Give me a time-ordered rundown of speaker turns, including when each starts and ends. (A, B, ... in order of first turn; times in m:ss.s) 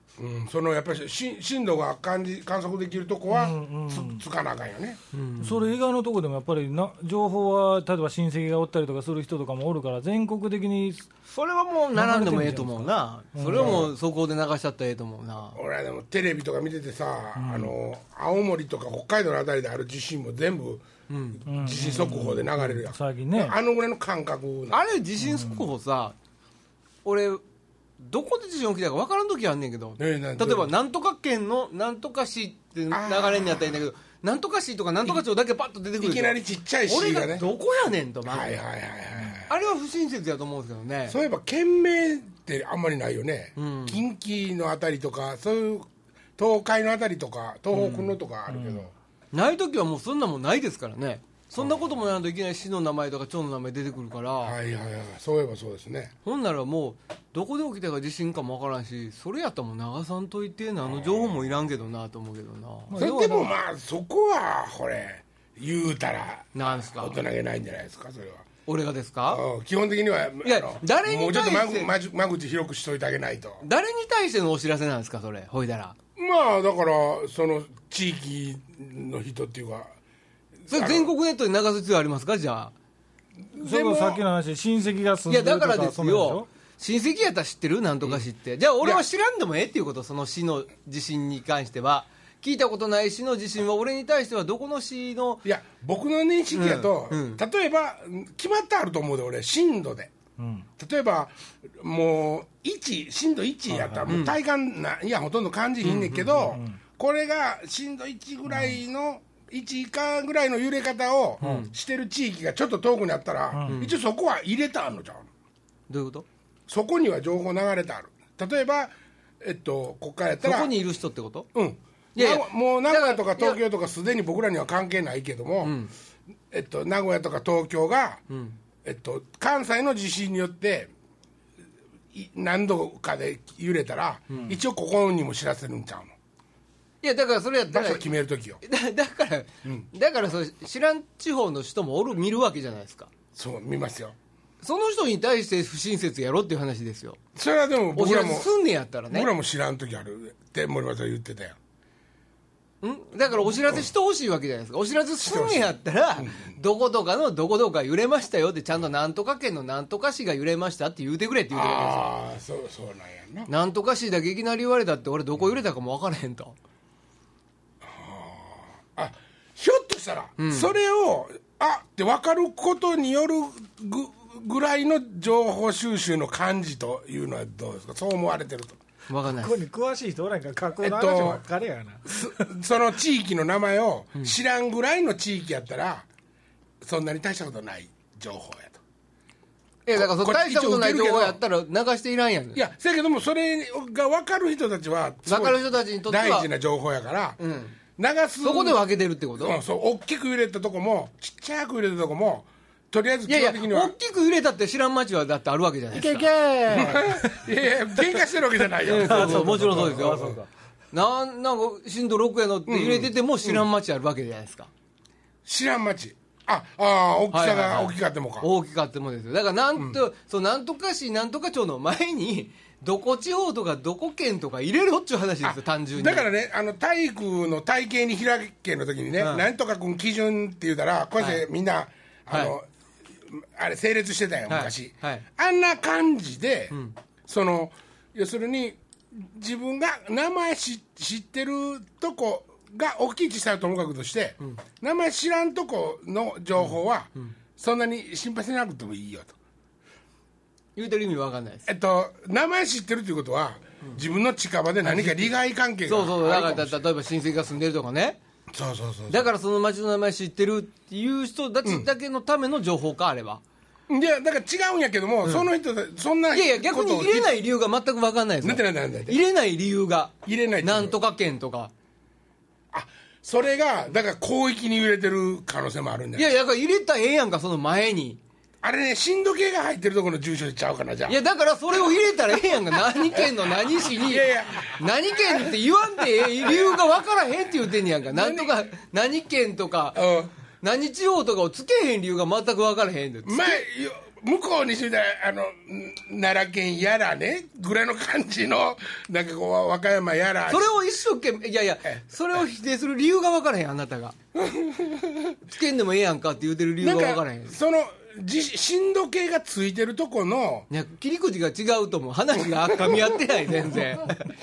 0:00.2-0:05.0 A
0:03.3-0:04.2 B
0:05.1-0:05.7 C
0:05.4-0:11.1 B
0:11.3-0:15.6 C
0:11.9-0:13.9 B
0:13.5-0:13.9 A
0:15.5-0:20.8 A
0:17.4-0:17.7 B
0:21.1-0:21.4 C
0:21.4-0:24.9 A
0:21.5-0:23.6 B
0:24.7-0:26.2 C
0:25.2-0:25.6 B
0:27.0-0:27.4 C
0:28.0-0:38.6 C
0:30.0-0:30.7 A
0:32.9-0:33.8 A
0:36.0-0:37.5 A
0:38.3-0:39.7 A
0:39.5-0:41.2 C
0:41.1-0:48.9 A
0:43.6-0:44.0 C
0:47.7-0:48.1 C
0:48.5-0:48.8 B
0:49.3-0:54.6 C
0:54.4-0:56.1 A
0:56.2-1:03.0 C
1:00.9-1:01.4 A
1:02.9-1:03.5 B
1:03.0-1:08.5 A
1:06.5-1:07.2 C
1:08.6-1:09.4 C
1:09.3-1:13.6 A
1:10.4-1:11.9 C
1:13.6-1:16.0 C
1:16.2-1:19.9 A
1:20.7-1:21.1 A
1:20.7-1:22.7 C
1:23.5-1:24.2 A
1:23.6-1:26.5 B
1:25.3-1:35.4 C
1:35.4-1:40.1 A
1:36.5-1:37.4 C
1:40.4-1:40.6 B
1:40.8-1:55.3 A
1:43.7-1:44.2 B
1:44.1-1:44.3 C
1:45.8-1:46.6 C
1:46.5-1:46.8 B
1:48.5-1:48.8 B
1:51.4-1:51.7 C
1:53.5-1:53.8 B
1:53.7-1:53.9 C
1:55.9-1:56.2 C
1:56.7-2:00.7 A
2:00.4-2:01.5 C
2:01.5-2:05.8 A
2:02.1-2:03.6 C
2:05.6-2:05.9 C
2:06.5-2:08.2 A
2:08.3-2:08.6 C
2:08.8-2:10.9 A
2:12.1-2:16.1 A
2:14.3-2:14.5 C
2:17.0-2:18.1 C
2:17.7-2:18.6 A
2:18.6-2:23.1 C
2:23.3-2:24.2 A
2:24.6-2:27.2 C
2:27.3-2:28.5 A
2:27.9-2:29.3 C
2:29.1-2:31.6 A
2:32.8-2:42.1 C
2:35.2-2:36.6 A
2:41.5-2:43.5 A
2:43.5-2:46.5 C
2:47.8-2:58.8 A
2:50.4-2:50.7 C
2:59.1-2:59.6 C
2:59.4-3:02.5 B
3:00.8-3:01.4 A
3:02.1-3:06.0 A
3:06.8-3:08.8 A
3:09.8-3:12.6 C
3:09.9-3:11.4 A
3:12.5-3:17.4 A
3:15.2-3:16.5 C
3:17.4-3:17.8 C
3:18.0-3:18.8 A
3:18.4-3:19.6 C
3:19.4-3:24.0 A
3:23.3-3:27.0 C
3:26.0-3:30.4 A
3:26.7-3:27.4 B
3:28.8-3:30.5 B
3:28.8-3:30.4 C
3:30.9-3:34.7 C
3:32.7-3:33.6 A
3:35.5-3:38.5 A
3:37.3-3:46.3 C
3:45.4-3:52.7 A
3:49.2-3:49.4 C
3:51.2-3:51.4 C
3:52.3-3:52.5 C
3:53.2-4:09.4 A
3:54.5-3:55.2 C
3:56.7-3:57.0 C
4:06.6-4:07.3 C
4:10.8-4:11.7 C
4:11.6-4:16.8 A
4:14.8-4:15.3 C
4:15.8-4:18.2 C
4:18.5-4:19.3 A
4:19.1-4:23.4 C
4:23.9-4:27.4 A
4:26.3-4:31.7 C
4:28.4-4:29.2 A
4:30.2-4:31.0 A
4:32.7-4:36.3 A
4:36.1-4:38.2 C
4:38.6-4:41.2 A
4:41.1-4:50.1 C
4:43.1-4:46.8 A
4:48.0-4:48.5 A
4:49.9-4:50.3 A
4:50.6-4:53.6 C
4:53.2-5:00.7 A
5:00.5-5:04.2 C
5:04.3-5:05.4 A
5:05.5-5:07.6 C
5:06.8-5:10.7 A
5:10.7-5:14.3 C
5:12.4-5:14.2 A